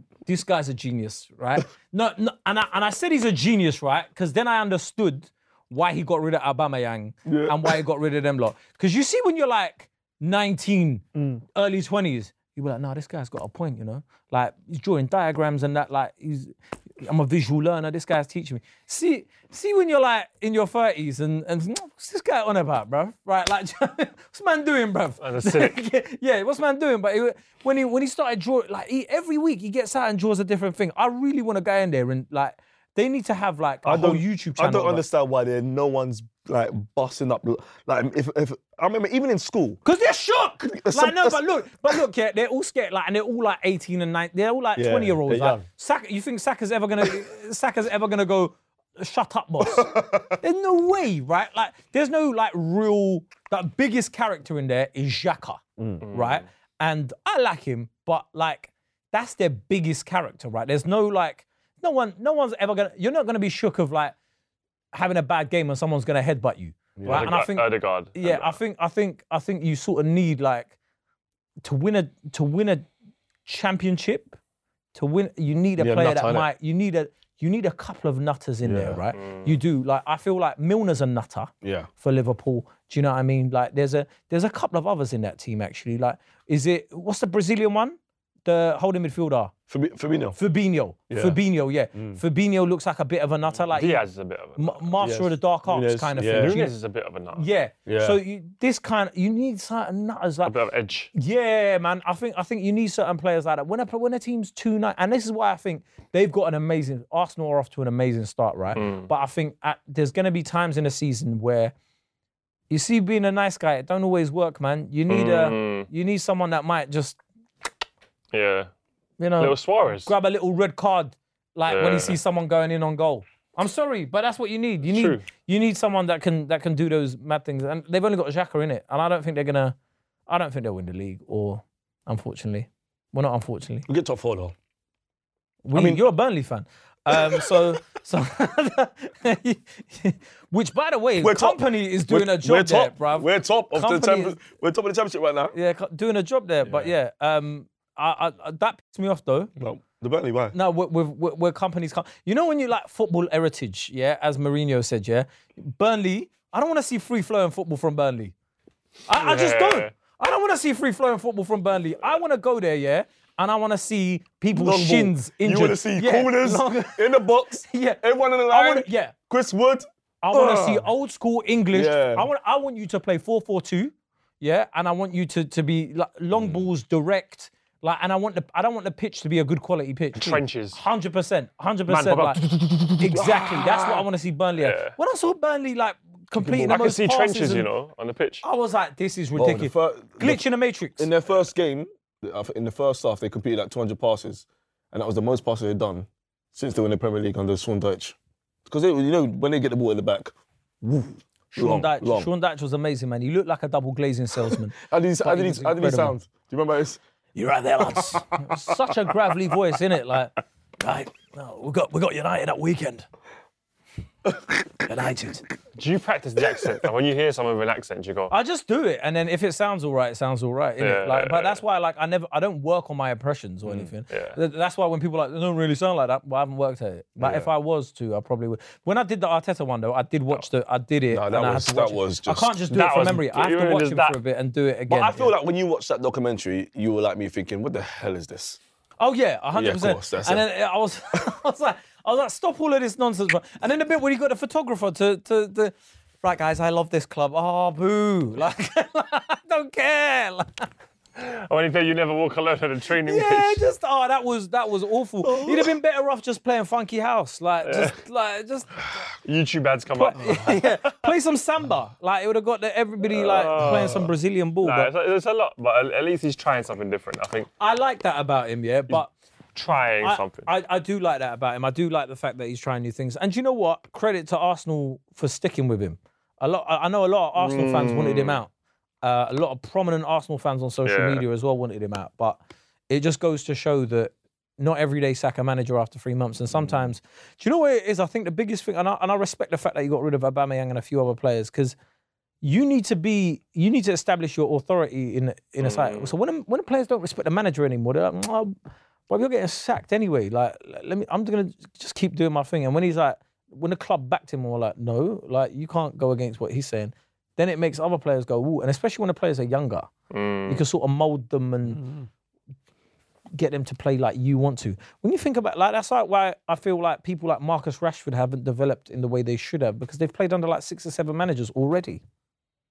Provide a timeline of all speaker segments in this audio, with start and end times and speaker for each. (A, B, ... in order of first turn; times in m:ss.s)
0:00.3-0:35.0 A
0:07.3-0:07.8 B
0:11.2-0:11.4 B
0:25.2-0:25.8 C
0:33.8-0:39.8 B
0:39.8-1:04.1 A
0:40.7-0:41.4 B
0:44.8-0:45.6 B
0:49.6-0:50.4 B
0:55.8-0:56.0 B
0:56.0-0:56.4 C
1:04.9-1:10.7 A
1:07.0-1:07.3 B
1:07.1-1:08.6 C
1:11.6-1:12.9 A
1:13.4-1:14.4 A
1:14.9-1:29.5 A
1:15.8-1:16.5 B
1:18.6-1:19.0 B
1:19.1-1:19.5 C
1:21.6-1:21.9 B
1:29.7-1:30.4 B
1:30.4-1:34.0 A
1:31.1-1:31.4 B
1:31.9-1:32.2 B
1:33.7-1:34.9 C
1:34.6-1:36.7 A
1:35.0-1:36.6 B
1:36.3-1:37.5 C
1:37.4-1:40.5 A
1:37.9-1:38.2 B
1:40.4-1:41.1 C
1:41.1-1:51.7 A
1:48.8-1:49.1 C
1:52.7-1:57.2 A
1:55.1-1:55.9 C
1:58.3-1:58.7 C
1:59.2-2:09.8 A
1:59.4-2:00.1 C
2:01.7-2:02.2 C
2:04.8-2:05.2 C
2:10.3-2:13.9 A
2:13.9-2:14.6 B
2:15.6-2:24.4 A
2:15.7-2:16.1 B
2:17.1-2:17.8 B
2:21.2-2:25.6 B
2:25.5-2:29.5 A
2:26.6-2:26.9 B
2:29.6-2:30.6 B
2:30.5-2:38.3 A
2:39.1-2:49.1 A
2:39.2-2:39.9 C
2:44.5-2:50.9 B
2:50.2-3:02.4 A
2:51.7-2:52.3 B
3:00.2-3:00.8 C
3:01.9-3:03.0 C
3:02.7-3:04.0 B
3:03.0-3:07.7 A
3:04.6-3:05.0 C
3:06.3-3:06.9 B
3:06.7-3:08.4 C
3:08.4-3:11.1 A
3:09.4-3:10.4 B
3:11.0-3:18.2 B
3:18.7-3:22.3 B
3:21.5-3:26.2 A
3:24.8-3:27.0 B
3:27.4-3:33.1 A
3:34.8-3:35.4 A
3:35.8-3:38.3 C
3:38.3-3:55.3 A
3:40.8-3:41.6 C
3:44.1-3:44.4 C
3:47.2-3:47.5 B
3:51.1-3:52.6 B
3:52.7-3:54.2 C
3:54.9-3:58.6 B
3:59.0-4:10.7 A
3:59.5-4:00.4 B
4:11.2-4:13.6 C
4:13.0-4:18.7 A
4:15.2-4:15.7 B
4:17.6-4:17.9 C
4:19.2-4:21.1 C
4:20.0-4:24.9 A
4:23.1-4:24.1 C
4:23.6-4:24.0 B
4:24.6-4:27.5 C
4:27.6-4:29.1 A
4:29.6-4:30.5 C
4:30.0-4:38.5 A
4:37.4-4:38.4 C
4:39.0-4:51.8 A
4:40.8-4:41.2 C
4:52.4-4:58.6 A
4:55.6-4:56.1 C
4:59.1-5:09.9 A
5:10.1-5:10.6 C
5:10.5-5:11.8 A
5:11.8-5:12.1 B
5:13.3-5:22.0 A